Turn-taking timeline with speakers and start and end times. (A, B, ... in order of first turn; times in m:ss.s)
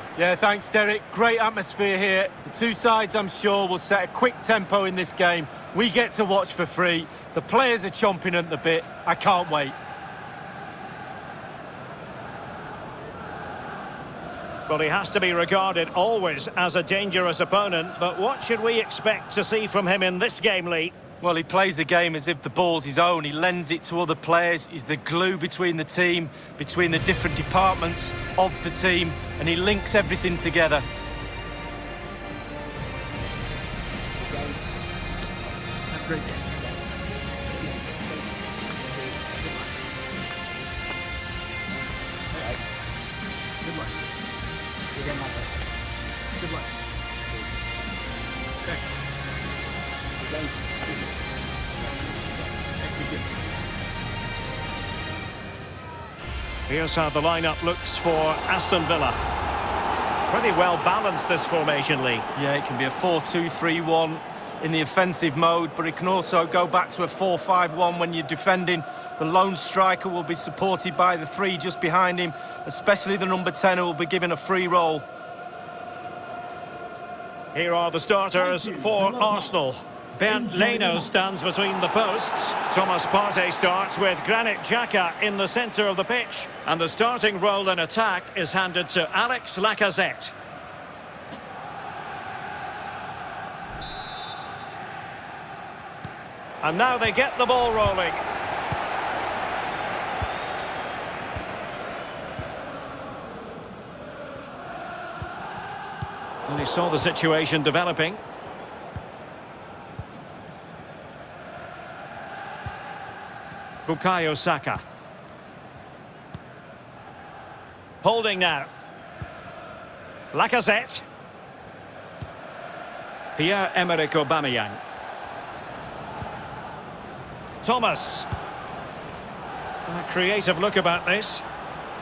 0:00.2-0:09.8 A
0:14.7-0:20.9 B
0:21.2-0:30.8 A
0:36.1-0:36.6 C
0:37.6-0:39.6 C
0:45.0-0:45.5 C
0:50.2-0:50.8 C
0:52.0-0:52.3 C
0:56.7-0:59.2 B
1:00.3-1:02.2 B
1:02.4-1:15.0 A
1:17.5-1:30.3 B
1:36.6-1:38.2 B
1:46.5-1:48.2 B
1:53.9-1:54.8 B
1:58.0-1:58.7 B
2:00.3-2:01.0 B
2:03.4-2:04.8 B
2:07.6-2:08.3 B
2:09.8-2:11.4 B